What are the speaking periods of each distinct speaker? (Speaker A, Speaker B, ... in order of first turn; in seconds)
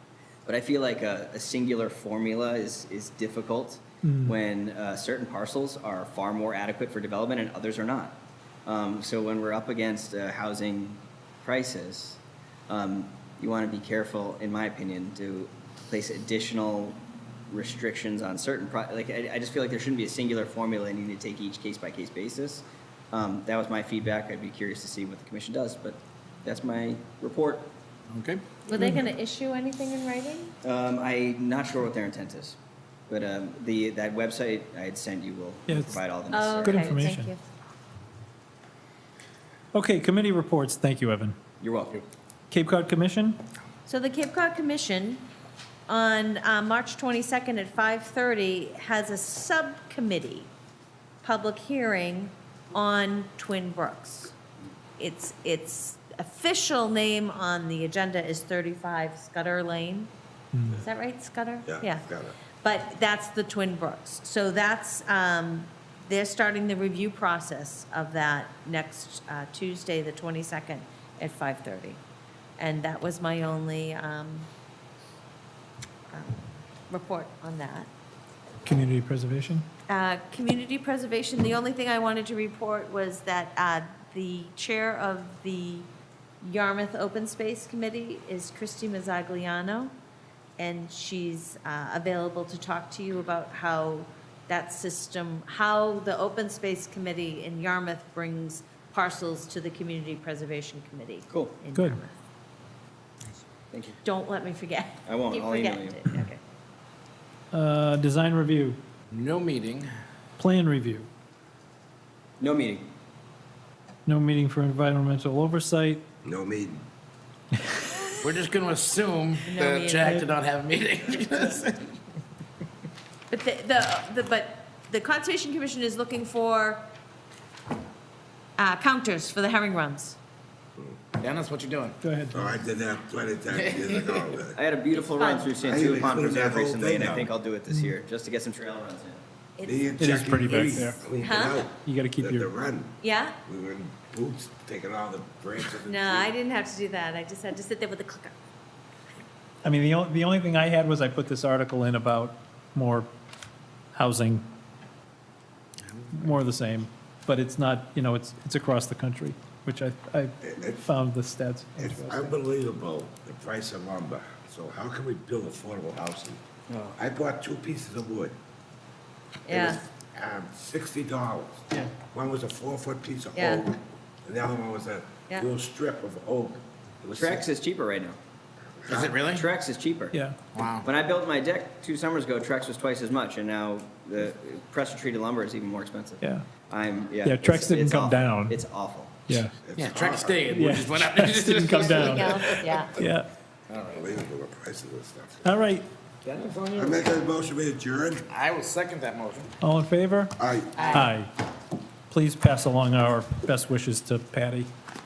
Speaker A: 0.5-27.7, 30.6-32.6, 33.1-37.0, 41.6-42.0, 101.3-101.5, 103.7-104.0, 105.0-106.0, 112.4-112.9, 134.5-139.2, 177.1-178.2, 179.3-180.2, 180.8-189.2
Speaker B: 4.0-4.3, 28.8-29.0, 35.7-36.0, 36.6-37.3, 39.7-41.4, 42.5-43.4, 60.5-60.8, 78.6-79.7, 107.5-108.8, 110.4-111.1, 114.0-116.0, 132.0-132.4, 140.0-141.0, 141.8-142.5, 149.6-153.1, 153.9-154.5, 156.1-162.3, 180.1-180.4, 186.2-186.4, 187.2-188.6, 189.3-189.6, 190.5-193.3, 195.4-195.9, 199.6-200.3, 200.9-201.3, 202.1-204.7
Speaker C: 28.1-28.4, 109.1-109.9, 118.1-121.9, 131.2-132.0, 133.5-134.2, 178.9-179.4, 180.5-180.9, 189.8-192.8, 193.7-194.1, 196.2-196.8, 198.3-199.5
Speaker D: 28.7-30.5, 36.3-37.4, 43.9-45.2, 45.9-50.5, 51.2-54.3, 55.0-60.1, 60.7-62.0, 62.6-72.0, 72.6-74.5, 76.1-77.9, 79.9-85.9, 86.4-89.9, 90.6-102.1, 104.0-106.4, 119.4-120.2, 123.3-126.8, 128.6-130.2, 135.0-135.6, 139.6-139.9, 141.2-141.6, 143.0-143.3, 145.9-148.3, 169.5-169.8, 173.3-173.7, 191.8-193.0, 200.8-201.1
Speaker E: 61.6-62.4, 116.2-116.8, 132.3-134.6, 135.6-137.3, 139.6-146.3, 160.4-160.9, 161.8-166.4, 166.9-168.3, 169.5-177.5, 178.8-179.2, 189.6-190.6, 193.9-195.5, 196.7-198.2, 200.4-201.0